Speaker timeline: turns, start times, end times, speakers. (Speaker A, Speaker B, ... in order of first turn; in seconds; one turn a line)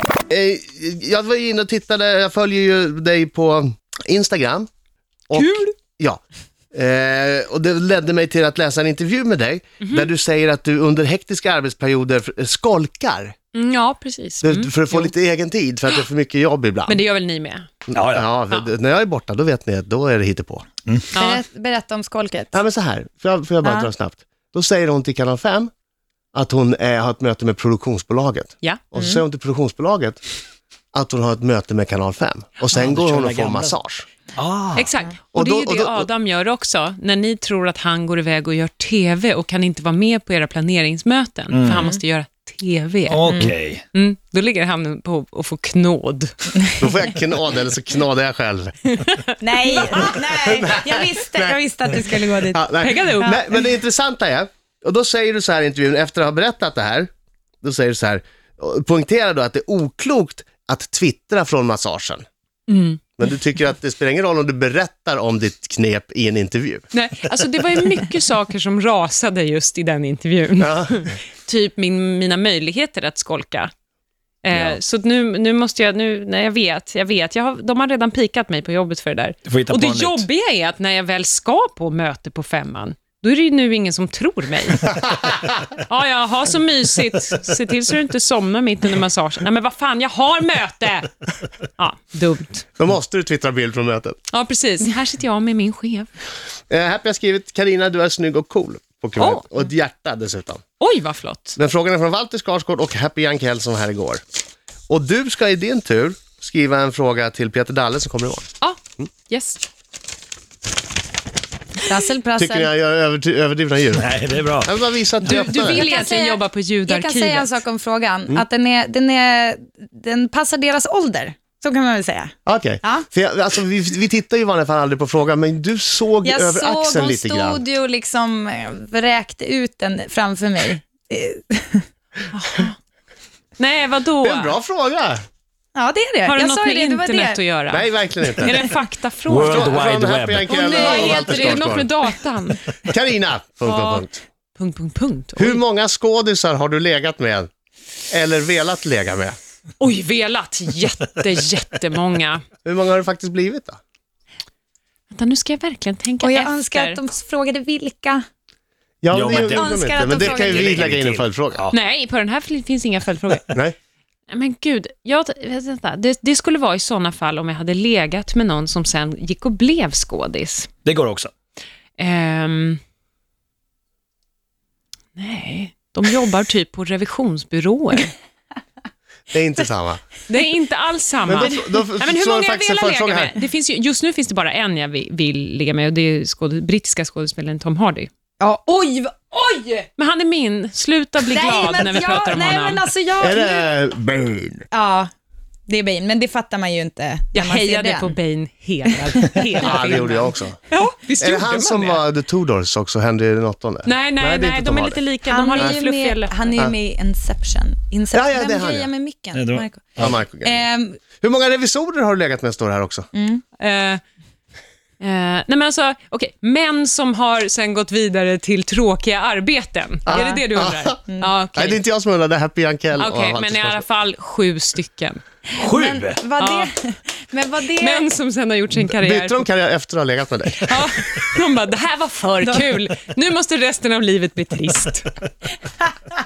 Speaker A: 0.3-4.7
Speaker A: 5.3-6.2
Speaker B: 5.3-5.7
Speaker A: 6.7-13.3
Speaker B: 9.8-10.1
Speaker B: 13.5-15.1
Speaker A: 14.4-17.0
Speaker B: 16.9-17.7
Speaker A: 17.9-20.7
Speaker C: 17.9-18.3
Speaker B: 21.1-21.4
Speaker D: 21.1-22.6
Speaker A: 22.5-25.7
Speaker D: 23.6-23.9
Speaker A: 26.3-30.2
Speaker D: 29.0-29.2
Speaker A: 30.9-34.1
Speaker C: 32.7-33.8
Speaker C: 34.4-34.9
Speaker B: 34.8-46.3
Speaker A: 35.3-36.1
Speaker C: 41.5-41.9
Speaker D: 41.7-42.0
Speaker C: 43.1-43.8
Speaker A: 46.8-48.8
Speaker B: 49.0-50.1
Speaker D: 49.4-52.6
Speaker A: 50.4-51.6
Speaker A: 52.5-57.1
Speaker B: 52.8-53.3
Speaker D: 53.2-53.5
Speaker A: 57.6-62.2
Speaker B: 62.7-63.0
Speaker A: 63.2-66.8
Speaker B: 66.9-73.7
Speaker A: 70.6-71.0
Speaker B: 74.4-85.0
Speaker A: 74.5-74.8
Speaker C: 79.5-80.3
Speaker B: 85.8-91.1
Speaker B: 91.8-92.7
Speaker A: 92.8-94.2
Speaker B: 94.3-96.1
Speaker A: 96.7-100.6
Speaker B: 99.2-99.4
Speaker B: 100.8-101.6
Speaker A: 101.6-104.2
Speaker A: 104.9-108.5
Speaker B: 108.6-109.7
Speaker D: 111.9-112.7
Speaker A: 112.4-115.9
Speaker C: 114.0-114.7
Speaker B: 115.2-117.5
Speaker D: 115.6-123.0
Speaker A: 122.5-127.6
Speaker D: 126.2-131.8
Speaker B: 132.3-132.8
Speaker B: 133.6-134.6
Speaker A: 134.2-135.2
Speaker D: 135.8-137.4
Speaker B: 136.3-139.8
Speaker A: 137.7-138.6
Speaker C: 139.3-140.6
Speaker A: 139.4-141.9
Speaker B: 140.4-142.6
Speaker D: 140.6-141.8
Speaker A: 142.9-144.2
Speaker B: 143.7-145.6
Speaker A: 145.4-147.5
Speaker A: 148.1-149.4
Speaker B: 149.8-152.4
Speaker A: 152.7-153.8
Speaker B: 155.1-157.0
Speaker D: 156.2-158.2
Speaker A: 159.0-161.6
Speaker C: 159.1-161.8
Speaker D: 159.3-160.8
Speaker B: 161.7-163.6
Speaker B: 164.3-170.7
Speaker C: 170.8-171.3
Speaker B: 172.0-172.8
Speaker B: 175.2-178.1
Speaker A: 179.3-180.0
Speaker B: 180.3-188.1
Speaker A: 181.3-183.3
Speaker D: 188.4-189.9
Speaker B: 190.0-192.8
Speaker D: 191.3-193.7
Speaker A: 193.2-194.7
Speaker D: 194.7-195.1
Speaker D: 195.7-198.2
Speaker B: 197.3-202.0
Speaker A: 199.6-200.6
Speaker A: 201.2-205.0
Speaker B: 203.8-206.6
Speaker D: 205.3-211.0
Speaker A: 208.1-208.9
Speaker C: 209.3-209.7
Speaker A: 210.0-210.6
Speaker A: 211.2-213.1
Speaker D: 213.1-213.4
Speaker B: 213.6-214.0
Speaker B: 215.0-221.8
Speaker A: 220.1-221.0
Speaker D: 220.1-220.4
Speaker A: 221.5-223.8
Speaker B: 223.0-225.2
Speaker C: 225.5-226.2
Speaker D: 225.5-228.1
Speaker B: 226.4-226.7
Speaker B: 227.8-229.4
Speaker A: 228.9-230.7
Speaker B: 230.6-235.2